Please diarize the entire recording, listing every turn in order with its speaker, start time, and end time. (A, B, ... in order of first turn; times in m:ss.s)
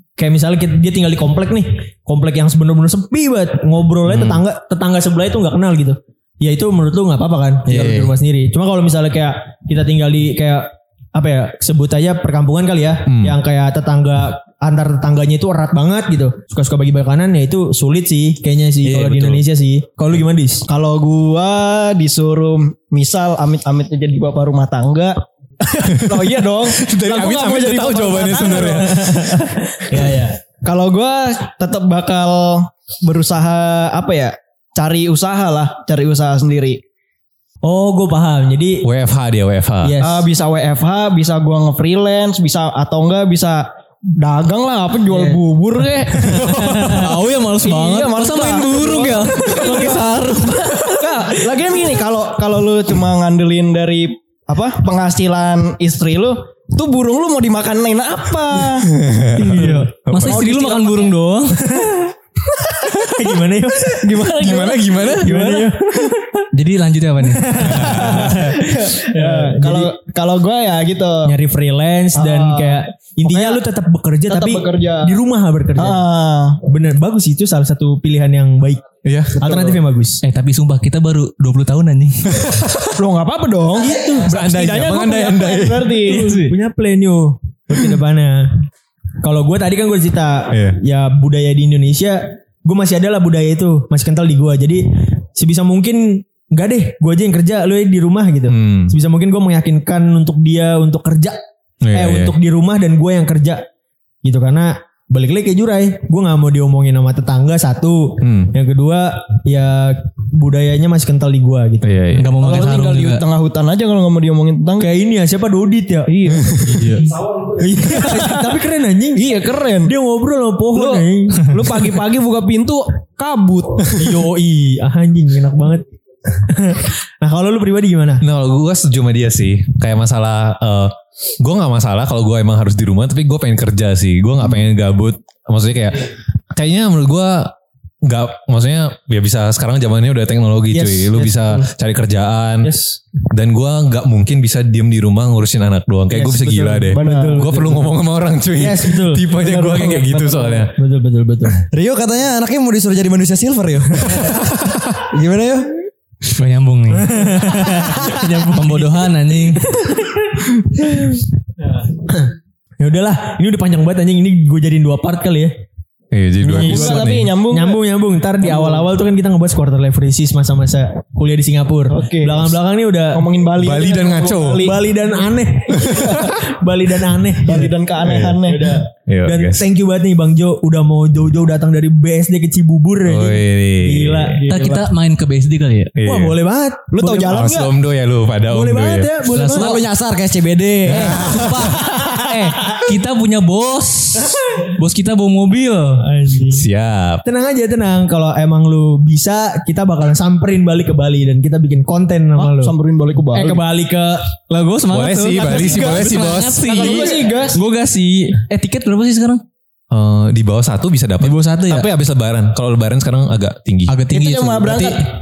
0:00.2-0:20.7 A
0:07.7-0:08.1 B
0:13.1-0:13.4 C
0:18.8-0:19.4 B
0:20.7-0:29.0 D
0:26.1-0:29.2 C
0:28.4-0:30.4 A
0:30.0-0:36.8 D
0:37.6-0:38.9 A
0:38.8-0:40.0 C
0:39.8-0:40.3 A
0:40.0-0:47.0 D
0:45.1-0:45.4 A
0:46.0-0:47.2 A
0:46.4-0:51.4 E
0:47.6-0:50.2 D
0:49.4-0:50.0 A
0:50.8-0:58.9 D
0:51.0-0:51.3 A
0:58.9-1:00.4 C
0:59.4-0:59.9 A
0:59.4-1:01.8 E
1:00.2-1:01.1 D
1:01.5-1:04.3 A
1:03.9-1:05.7 D
1:04.4-1:05.3 C
1:05.2-1:06.4 A
1:06.5-1:07.6 E
1:07.2-1:09.9 A
1:07.6-1:08.4 C
1:08.0-1:11.3 D
1:11.2-1:16.0 A
1:12.2-1:13.6 D
1:14.3-1:15.2 D
1:15.8-1:16.6 D
1:16.6-1:18.8 A
1:19.0-1:19.4 C
1:19.3-1:19.8 D
1:19.4-1:20.2 A
1:20.2-1:22.6 E
1:22.3-1:22.9 C
1:23.0-1:26.3 D
1:23.8-1:24.3 A
1:24.3-1:25.9 C
1:26.0-1:28.6 A
1:26.1-1:26.6 E
1:29.2-1:34.8 A
1:30.5-1:30.8 C
1:35.4-1:41.4 A
1:38.5-1:38.9 C
1:41.8-1:42.3 C
1:41.9-1:43.6 A
1:44.2-1:51.9 A
1:48.2-1:48.5 C
1:51.8-1:52.3 C
1:52.1-1:53.2 E
1:52.4-1:54.9 D
1:54.8-1:56.1 A
1:56.1-1:58.5 D
1:56.7-1:57.1 E
1:57.6-1:59.3 A
1:59.2-2:00.0 D
1:59.8-2:01.6 A
2:00.7-2:04.0 D
2:04.0-2:08.2 A
2:08.2-2:22.7 C
2:20.7-2:21.7 A
2:22.6-2:23.0 A
2:23.3-2:30.7 C
2:26.1-2:27.9 A
2:26.9-2:27.5 D
2:28.6-2:29.2 A
2:29.4-2:30.7 D
2:30.7-2:31.6 A
2:31.7-2:34.5 B
2:34.2-2:35.0 C
2:35.1-2:35.7 B
2:36.4-2:37.4 E
2:36.9-2:45.5 A
2:38.5-2:39.7 E
2:46.1-2:47.3 C
2:46.4-2:53.2 A
2:46.6-2:47.8 D
2:48.4-2:48.8 D
2:51.9-2:52.6 D
2:53.1-2:54.8 D
2:53.6-2:54.7 C
2:54.6-2:57.7 A
2:55.9-2:56.3 D
2:55.9-2:56.2 C
2:57.4-2:58.6 D
2:58.0-2:58.4 C
2:58.4-3:04.8 A
2:59.1-2:59.6 C
3:03.1-3:04.4 C
3:04.4-3:04.8 D
3:04.5-3:06.0 E
3:06.0-3:06.4 C
3:06.0-3:07.6 A
3:06.9-3:07.7 D
3:07.2-3:09.1 C
3:08.5-3:09.8 A
3:09.3-3:09.8 E
3:09.5-3:11.5 B
3:10.9-3:11.7 C
3:11.0-3:16.1 E
3:11.2-3:12.8 A
3:16.0-3:16.6 A
3:16.5-3:17.2 C
3:17.2-3:22.7 A
3:22.4-3:23.6 D
3:23.3-3:24.3 A
3:24.5-3:29.4 E
3:24.9-3:27.1 C
3:25.5-3:25.9 D
3:26.6-3:27.6 D
3:29.9-3:34.0 C
3:31.2-3:31.9 E
3:33.9-3:35.1 E
3:34.1-3:35.1 D